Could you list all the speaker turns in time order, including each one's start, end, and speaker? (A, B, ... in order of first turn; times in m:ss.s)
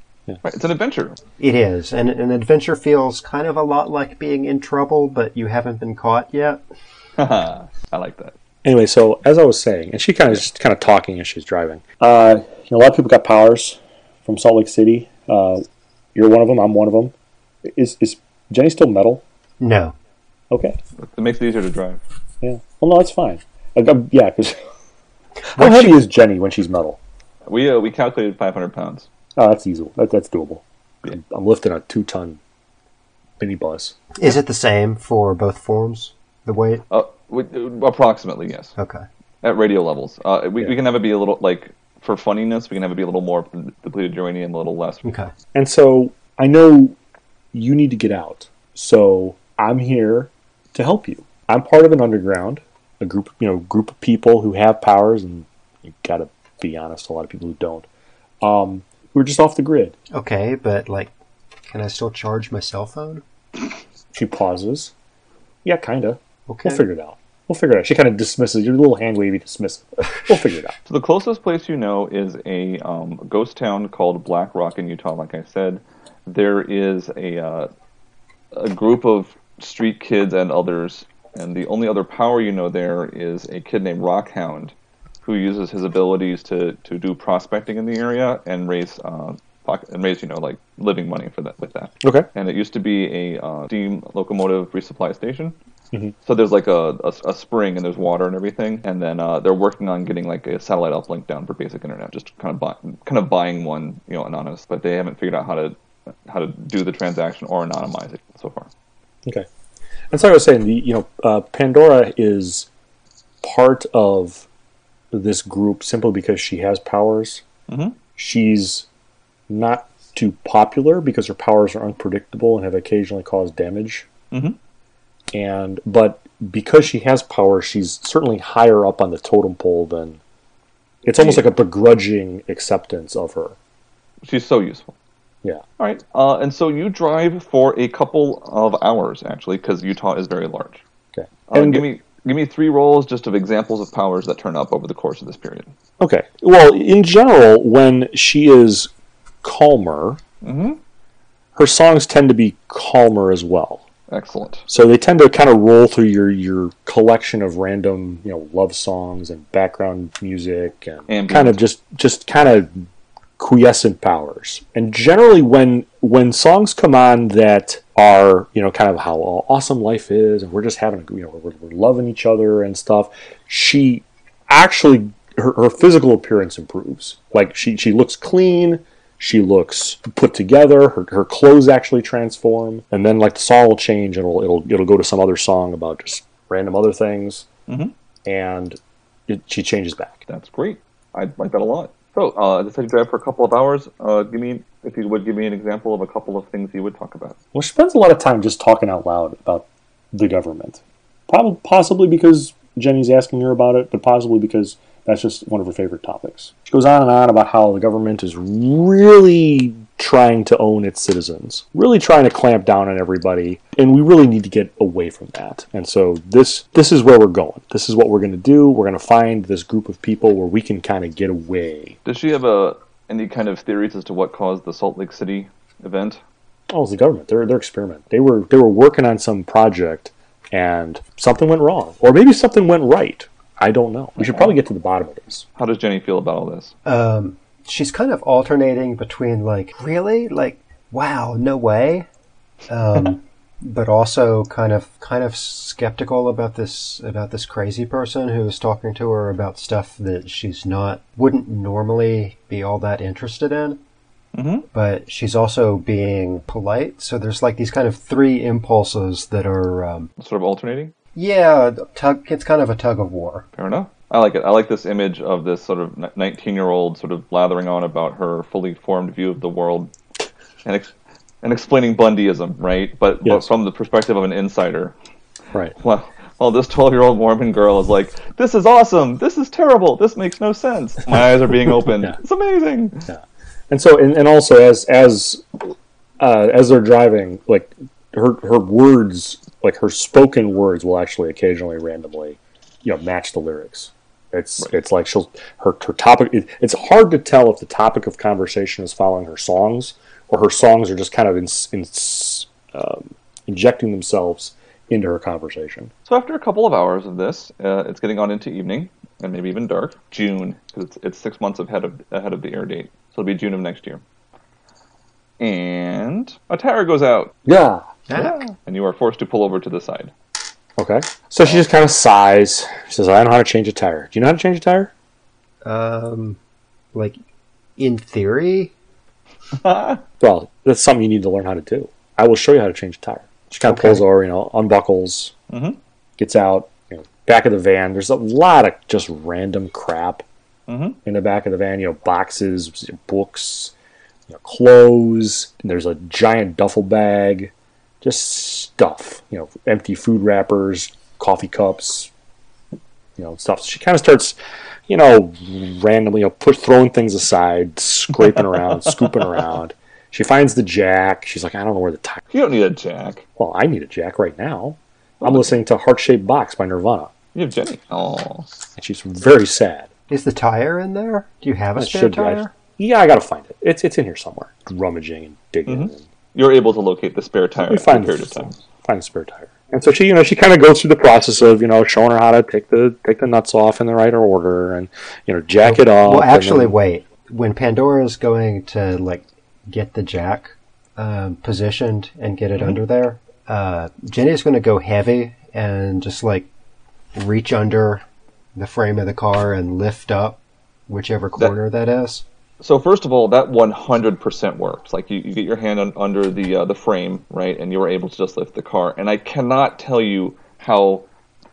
0:00.4-0:01.2 A
0:01.4-0:06.6 B
0:07.2-0:08.4 A
0:08.6-0:15.6 C
0:16.2-0:17.1 C
0:17.6-0:19.2 C
0:19.6-0:20.0 B
0:20.5-0:20.8 C
0:21.0-0:22.0 A
0:22.4-0:24.6 C
0:25.5-0:27.0 C
0:25.6-0:26.0 B
0:27.5-0:29.1 A
0:29.4-0:32.4 C
0:33.4-0:34.0 C
0:34.2-0:36.8 B
0:36.9-0:38.7 A
0:38.8-0:39.0 B
0:39.4-0:45.0 A
0:45.0-0:45.3 B
0:45.5-0:47.0 C
0:47.5-0:57.9 C
0:58.4-1:00.0 C
1:00.1-1:01.1 B
1:01.7-1:03.2 B
1:04.1-1:04.9 C
1:05.6-1:10.8 C
1:06.5-1:06.8 B
1:10.9-1:17.7 A
1:18.5-1:35.6 A
1:32.0-1:32.3 C
1:36.2-1:48.7 A
1:50.1-1:52.7 C
1:53.4-1:54.5 C
1:55.1-1:57.4 C
1:57.7-1:58.0 A
1:58.2-1:58.9 C
1:59.5-2:04.1 C
2:04.3-2:04.6 A
2:05.3-2:10.2 C
2:11.0-2:13.6 C
2:11.2-2:11.5 A
2:14.2-2:15.0 A
2:15.8-2:20.8 A
2:21.2-2:21.9 C
2:21.5-2:25.7 A
2:26.0-2:28.9 C
2:29.4-2:30.2 C
2:30.4-2:30.8 A
2:31.6-2:33.8 C
2:34.1-2:34.6 A
2:34.7-2:42.9 C
2:41.1-2:41.6 A
2:43.4-3:07.5 C
3:07.7-3:07.9 A
3:08.3-3:10.2 C
3:10.3-3:17.4 A
3:17.5-3:42.0 C
3:42.1-3:46.2 A
3:46.7-3:55.4 C
3:54.2-3:54.5 A
3:55.6-3:56.7 A
3:56.8-4:02.1 B
4:02.7-4:13.8 B
4:14.3-4:14.6 A
4:14.7-4:20.1 B
4:20.2-4:20.9 A
4:21.2-4:23.5 B
4:23.6-4:29.9 A
4:30.6-4:30.9 A
4:31.4-4:34.9 A
4:35.8-4:43.1 A
4:43.1-5:05.9 C
5:06.1-5:14.0 A
5:15.4-5:17.4 A
5:17.5-5:17.9 C
5:18.1-5:18.4 B
5:18.1-5:20.1 A
5:20.8-5:24.9 C
5:25.6-5:26.4 B
5:27.8-5:28.7 B
5:29.6-5:30.0 A
5:30.2-5:35.3 C
5:33.7-5:34.0 B
5:35.5-5:35.8 A
5:36.2-5:40.2 C
5:40.7-5:41.0 A
5:41.0-5:43.7 C
5:44.3-5:52.1 C
5:53.2-5:54.4 C
5:54.9-6:02.2 C
5:58.4-5:59.1 A
6:02.3-6:03.2 A
6:03.4-6:07.1 C
6:05.2-6:05.5 A
6:07.4-6:08.5 A
6:08.8-6:09.9 C
6:10.1-6:12.5 B
6:11.8-6:16.0 C
6:15.7-6:18.5 A
6:17.7-6:26.8 C
6:25.6-6:36.5 B
6:37.2-6:38.0 B
6:38.6-6:42.2 B
6:42.6-6:51.1 A